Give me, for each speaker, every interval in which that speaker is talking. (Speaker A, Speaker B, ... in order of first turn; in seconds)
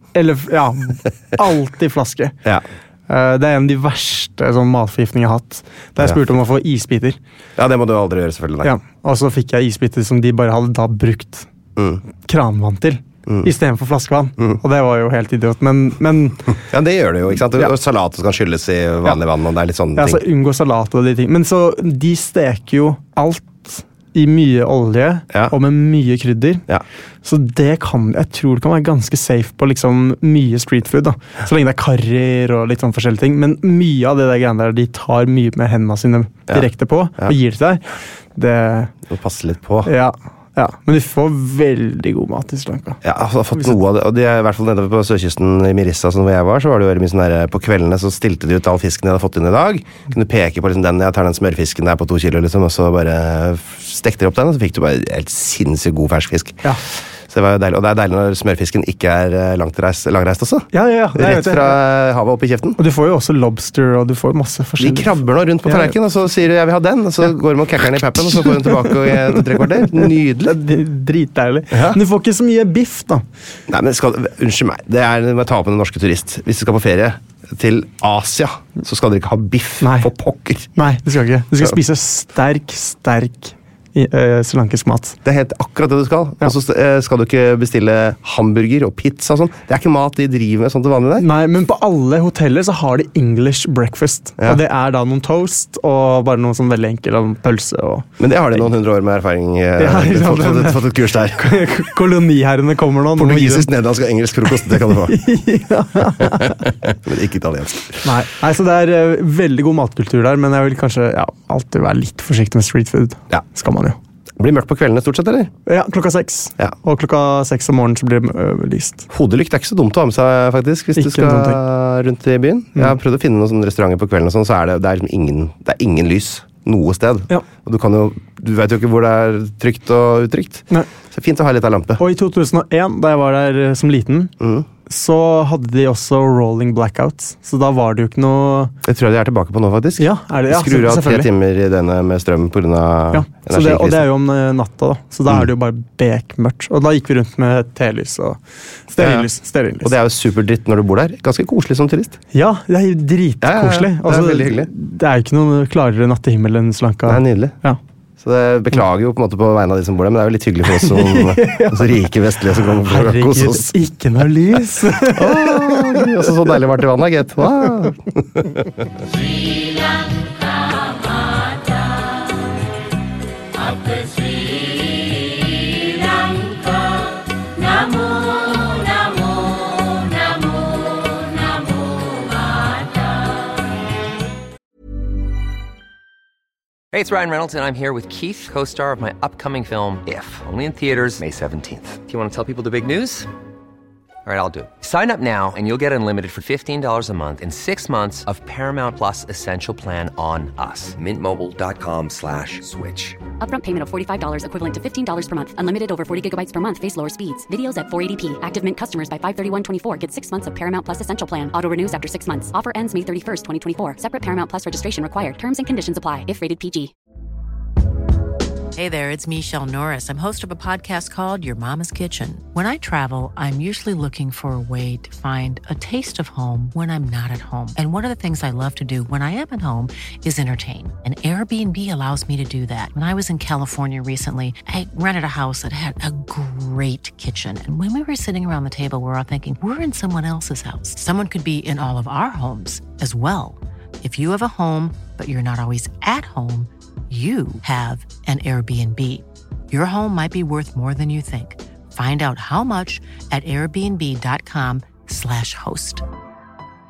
Speaker A: 0.1-2.3, 3.1-7.2, 8.6-11.5, 12.2-16.5, 19.9-26.6, 27.2-37.8, 38.3-38.9, 39.8-43.0, 60.7-61.8, 62.8-65.9, 68.4-73.2, 79.8-80.1, 80.7-85.2, 91.2-98.1, 99.8-103.7, 104.7-106.7, 108.0-114.0, 115.7-119.1, 120.9-121.6, 132.0-134.3, 134.9-138.7, 140.0-141.3, 143.1-149.9, 152.3-157.8, 160.6-162.1, 162.7-166.3
Speaker B: 7.6-8.7, 11.8-12.0, 16.7-20.2, 39.1-39.9, 43.0-62.8, 64.8-70.6, 71.7-72.0, 73.7-80.7, 85.2-91.3, 98.2-101.6, 103.2-105.2, 106.2-108.1, 114.4-115.5, 119.1-132.0, 134.4-134.7, 138.8-144.1, 149.0-149.3, 149.8-152.2, 153.4-154.7, 157.1-157.6, 158.2-163.7, 165.0-168.9
Speaker C: 186.9-193.3, 194.2-203.2
Speaker D: 203.4-216.9
Speaker E: 218.7-256.0